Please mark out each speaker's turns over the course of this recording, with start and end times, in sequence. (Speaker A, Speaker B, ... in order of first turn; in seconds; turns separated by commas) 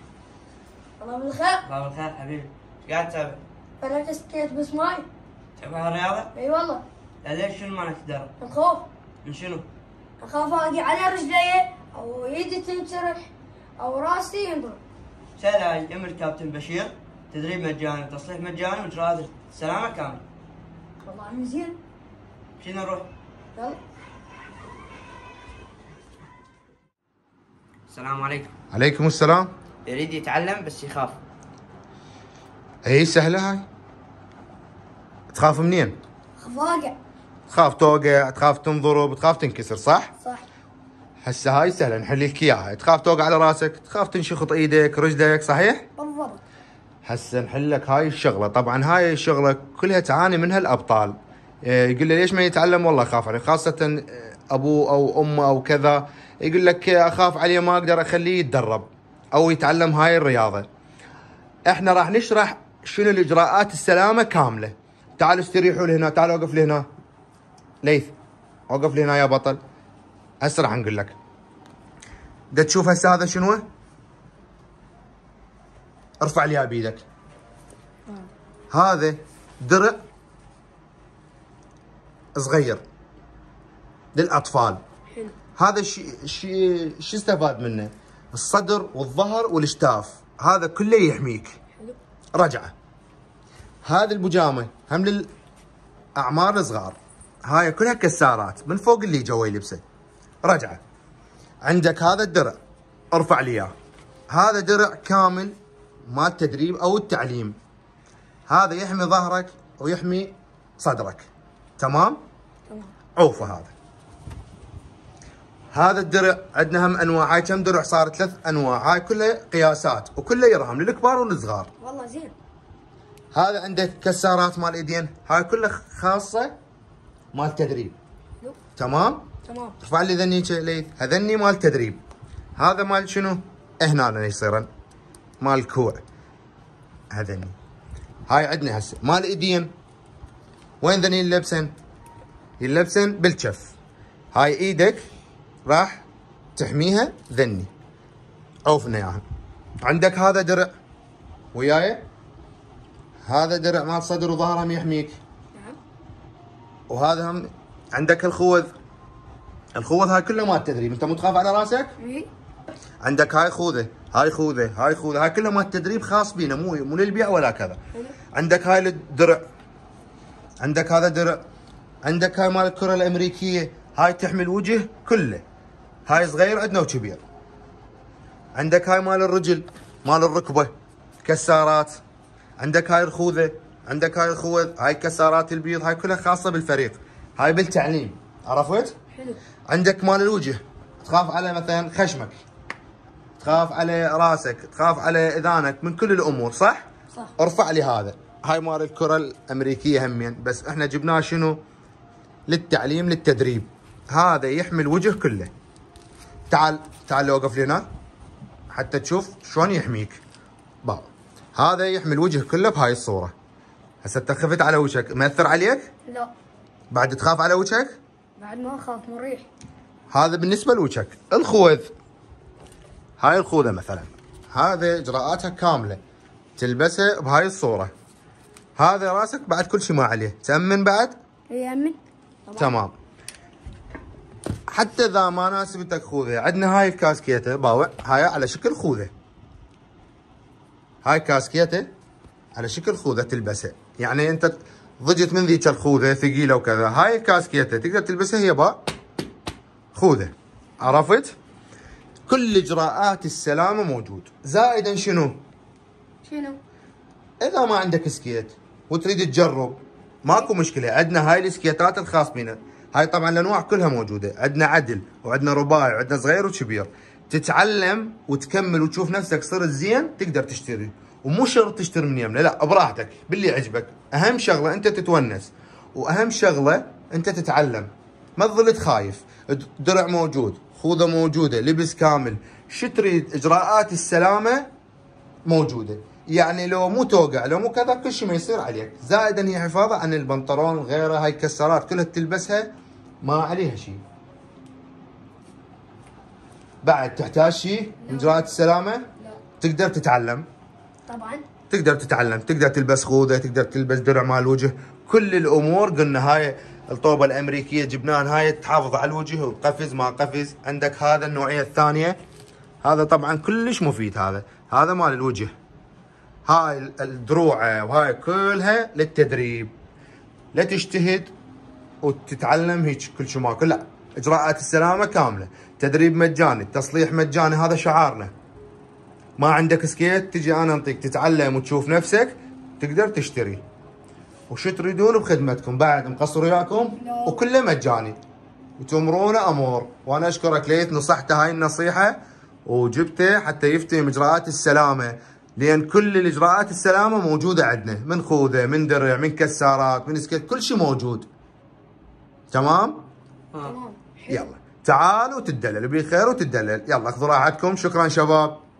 Speaker A: 1.0-1.7, Speaker B: 1.6-3.4, Speaker A: 3.8-5.1, Speaker B: 5.6-6.3, Speaker A: 6.3-6.8, Speaker B: 7.2-8.3, Speaker A: 8.4-8.9, Speaker B: 9.2-9.6, Speaker A: 10.2-14.8, Speaker B: 15.4-20.2, Speaker A: 21.0-21.8, Speaker B: 22.6-23.1, Speaker B: 27.9-28.5, Speaker C: 28.7-29.5, Speaker B: 29.9-31.2, Speaker C: 32.8-33.6, Speaker C: 35.3-36.0, Speaker A: 36.4-37.0, Speaker C: 37.5-40.1, Speaker C: 41.2-45.8, Speaker A: 46.0-46.4, Speaker C: 47.0-60.6, Speaker C: 61.7-66.8, Speaker C: 67.8-68.1, Speaker C: 68.7-69.6, Speaker C: 70.4-71.2, Speaker C: 72.5-73.6, Speaker C: 76.2-77.0, Speaker C: 78.7-80.0, Speaker C: 82.3-82.8, Speaker C: 84.1-84.8, Speaker C: 85.5-91.6, Speaker C: 92.3-92.7, Speaker C: 93.8-95.3, Speaker C: 96.2-99.8, Speaker C: 100.4-100.8, Speaker C: 101.6-102.6, Speaker C: 103.1-103.7, Speaker C: 104.3-105.5, Speaker C: 106.1-107.5, Speaker C: 108.5-112.2, Speaker C: 113.2-113.7, Speaker C: 115.7-121.7, Speaker A: 121.8-122.3, Speaker C: 123.3-126.5, Speaker C: 127.3-128.0, Speaker C: 128.8-129.3, Speaker A: 129.5-129.8, Speaker C: 129.8-132.0, Speaker C: 132.6-134.7, Speaker C: 135.4-136.0, Speaker C: 137.1-137.6, Speaker C: 138.3-139.7, Speaker C: 140.8-141.7, Speaker C: 142.6-143.7, Speaker C: 144.3-145.0, Speaker C: 145.7-146.0, Speaker C: 146.6-147.7, Speaker C: 148.7-149.2, Speaker C: 149.8-150.7, Speaker C: 151.5-152.0, Speaker C: 153.2-155.2, Speaker C: 156.9-158.7, Speaker C: 159.7-161.9, Speaker A: 162.0-162.3, Speaker C: 163.0-167.8, Speaker C: 168.3-169.4, Speaker C: 170.6-171.4, Speaker C: 172.0-175.4, Speaker C: 176.1-177.2, Speaker C: 178.5-180.7, Speaker C: 181.2-182.0, Speaker C: 182.6-188.9, Speaker C: 189.7-192.4, Speaker C: 193.4-196.8, Speaker C: 197.4-201.6, Speaker C: 202.5-205.5, Speaker C: 206.5-207.8, Speaker C: 208.7-210.2, Speaker C: 210.8-213.3, Speaker C: 214.0-215.9, Speaker C: 216.9-217.9, Speaker A: 218.4-219.4, Speaker C: 220.1-221.9, Speaker C: 223.2-226.0, Speaker C: 226.6-227.9, Speaker C: 228.8-231.2, Speaker A: 231.5-232.7, Speaker C: 232.6-232.9, Speaker C: 234.7-239.1, Speaker C: 241.0-241.9, Speaker C: 242.6-248.8, Speaker C: 249.9-251.3, Speaker C: 252.3-255.4, Speaker A: 256.2-256.6, Speaker C: 257.4-284.7, Speaker C: 285.4-294.0, Speaker C: 296.8-299.1, Speaker A: 298.1-298.4, Speaker C: 299.6-300.4, Speaker A: 301.1-301.4, Speaker C: 301.7-312.2, Speaker C: 312.8-315.5, Speaker C: 316.4-319.7, Speaker C: 320.5-321.3, Speaker C: 322.0-328.3, Speaker C: 329.4-333.6, Speaker C: 334.5-338.2, Speaker C: 338.8-351.3, Speaker C: 352.5-353.1, Speaker A: 353.6-354.4, Speaker C: 354.3-358.6